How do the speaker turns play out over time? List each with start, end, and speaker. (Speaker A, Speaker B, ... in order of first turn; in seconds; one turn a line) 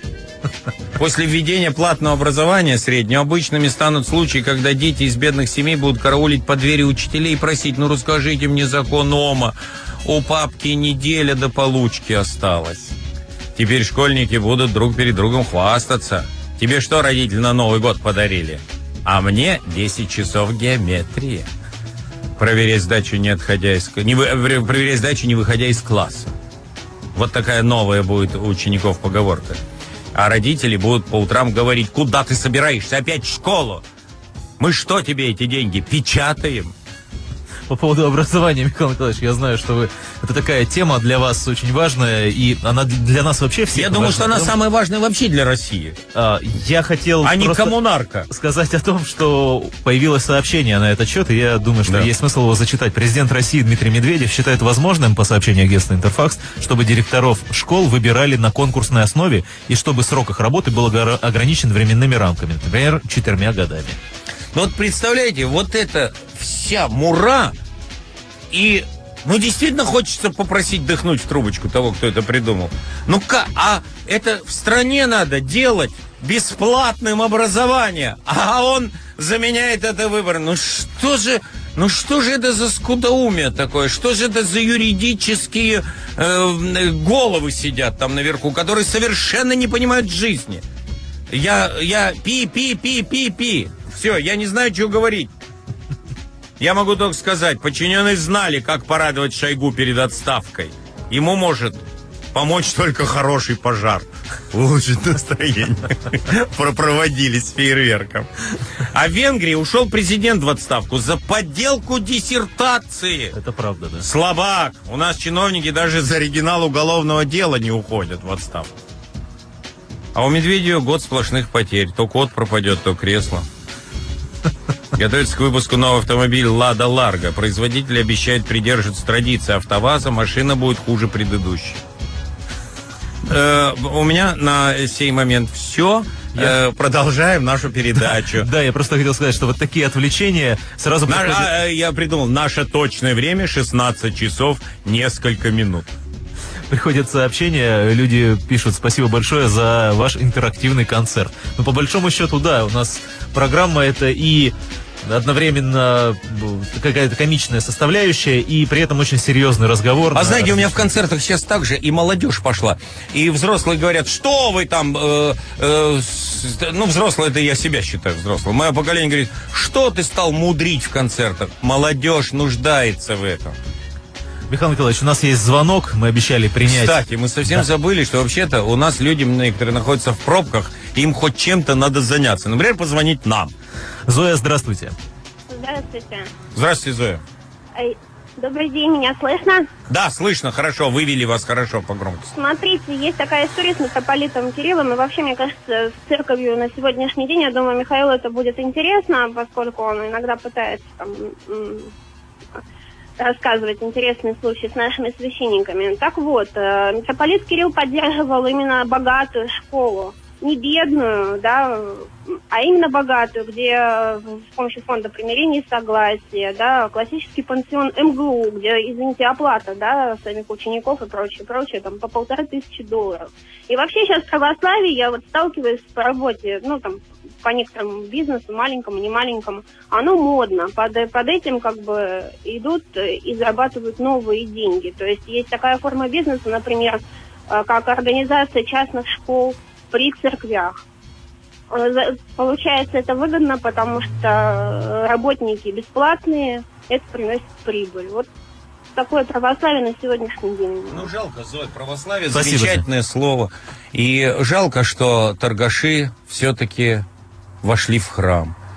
Speaker A: 0.9-12.9
Speaker A: 13.5-21.5
Speaker A: 22.4-26.3
Speaker A: 27.1-29.6
Speaker A: 30.1-33.8
Speaker A: 34.6-36.7
Speaker B: 37.7-44.5
Speaker A: 43.7-46.0
Speaker B: 46.1-47.8
Speaker A: 47.2-48.3
Speaker B: 48.3-64.0
Speaker A: 64.5-67.5
Speaker A: 68.5-90.6
Speaker A: 91.3-95.3
Speaker A: 96.6-108.3
Speaker A: 108.9-113.3
Speaker B: 113.3-114.1
Speaker A: 114.0-118.7
Speaker A: 120.1-123.5
Speaker A: 124.9-131.8
Speaker A: 133.2-138.5
Speaker B: 138.2-141.5
Speaker A: 141.1-145.9
Speaker B: 146.7-160.9
Speaker A: 160.1-173.6
Speaker B: 174.5-177.0
Speaker A: 176.6-183.5
Speaker B: 184.1-184.9
Speaker C: 185.5-186.3
Speaker A: 186.5-187.2
Speaker C: 187.8-189.7
Speaker A: 189.9-192.3
Speaker C: 192.3-201.9
Speaker C: 203.2-240.8
Speaker C: 241.7-248.2
Speaker C: 248.9-251.0
Speaker A: 250.9-257.1
Speaker B: 252.3-252.8
Speaker A: 257.6-258.5